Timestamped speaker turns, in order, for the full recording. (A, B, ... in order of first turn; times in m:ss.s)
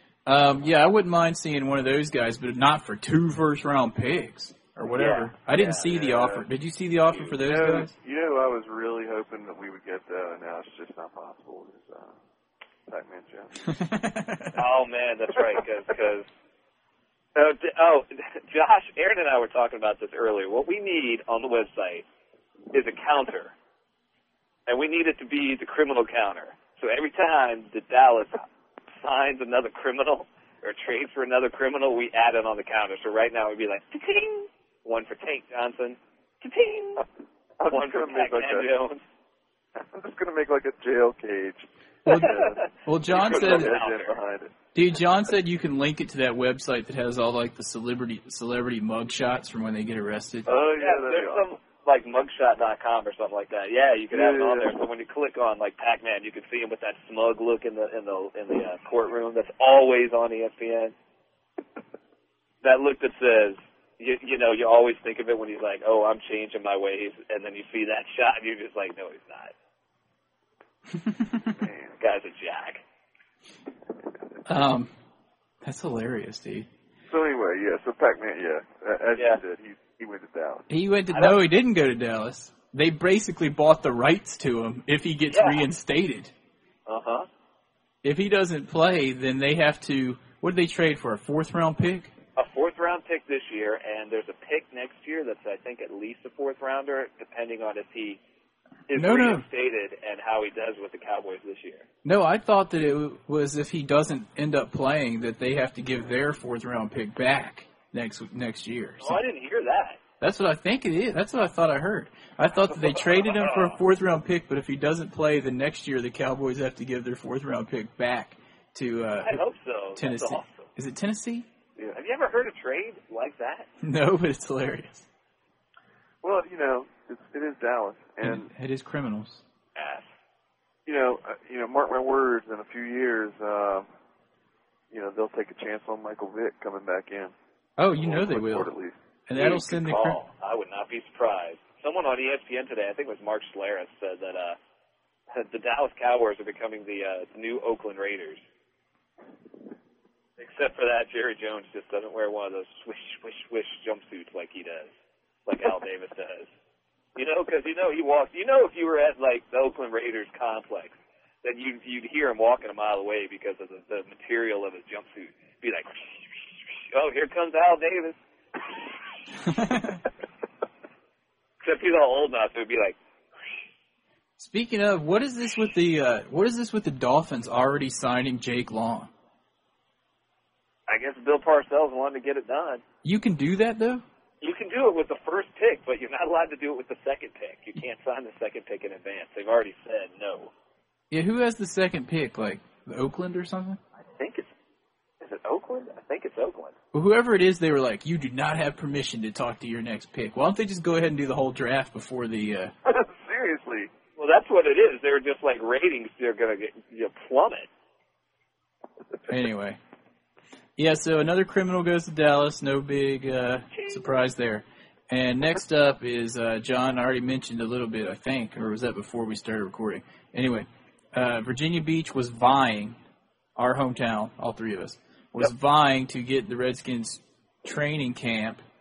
0:00.2-0:07.9 A
0:04.9-0:06.2 B
0:05.9-0:06.4 C
0:07.4-0:12.1 C
0:12.9-0:13.7 C
0:13.6-0:14.6 A
0:14.5-0:16.3 B
0:17.4-0:22.0 B
0:22.7-0:23.5 B
0:24.7-0:37.0 B
0:37.6-0:38.7 C
0:37.7-0:39.0 B
0:39.8-0:44.5 C
0:42.0-0:43.7 A
0:42.1-0:44.2 B
0:44.8-0:50.5 A
0:50.5-0:51.5 C
0:50.8-1:00.9 B
0:54.1-0:54.8 C
1:02.6-1:09.5 B
1:10.9-1:11.5 A
1:11.5-1:12.0 C
1:12.0-1:12.8 B
1:14.5-1:14.9 A
1:15.6-1:16.7 A
1:17.1-1:20.7 C
1:19.1-1:19.4 B
1:20.7-1:26.3 A
1:25.3-1:25.6 B
1:26.9-1:27.3 B
1:28.0-1:32.1 A
1:32.4-1:38.2 B
1:38.9-1:41.9 B
1:39.0-1:39.4 A
1:42.0-1:49.2 A
1:49.0-1:50.0 B
1:50.2-1:59.4 A
1:52.8-1:53.8 B
1:59.2-2:00.7 B
2:00.0-2:01.5 A
2:01.9-2:03.7 B
2:03.8-2:05.1 A
2:06.2-2:08.5 C
2:08.2-2:09.4 A
2:09.8-2:10.1 B
2:10.9-2:13.9 C
2:14.9-2:17.3 C
2:17.8-2:18.7 A
2:18.0-2:19.0 C
2:19.3-2:20.2 A
2:19.4-2:24.6 B
2:25.3-2:28.4 B
2:30.4-2:34.9 B
2:35.5-2:36.5 B
2:37.2-2:48.2 B
2:49.5-2:50.0 A
2:51.6-2:53.0 B
2:54.4-2:59.1 A
3:00.9-3:02.8 B
3:03.0-3:04.0 A
3:04.4-3:10.5 B
3:11.1-3:13.8 A
3:14.2-3:14.5 B
3:15.2-3:16.8 B
3:16.9-3:22.7 A
3:22.8-3:23.9 C
3:24.2-3:27.7 B
3:29.3-3:29.8 A
3:30.8-3:43.0 A
3:43.6-3:48.6 A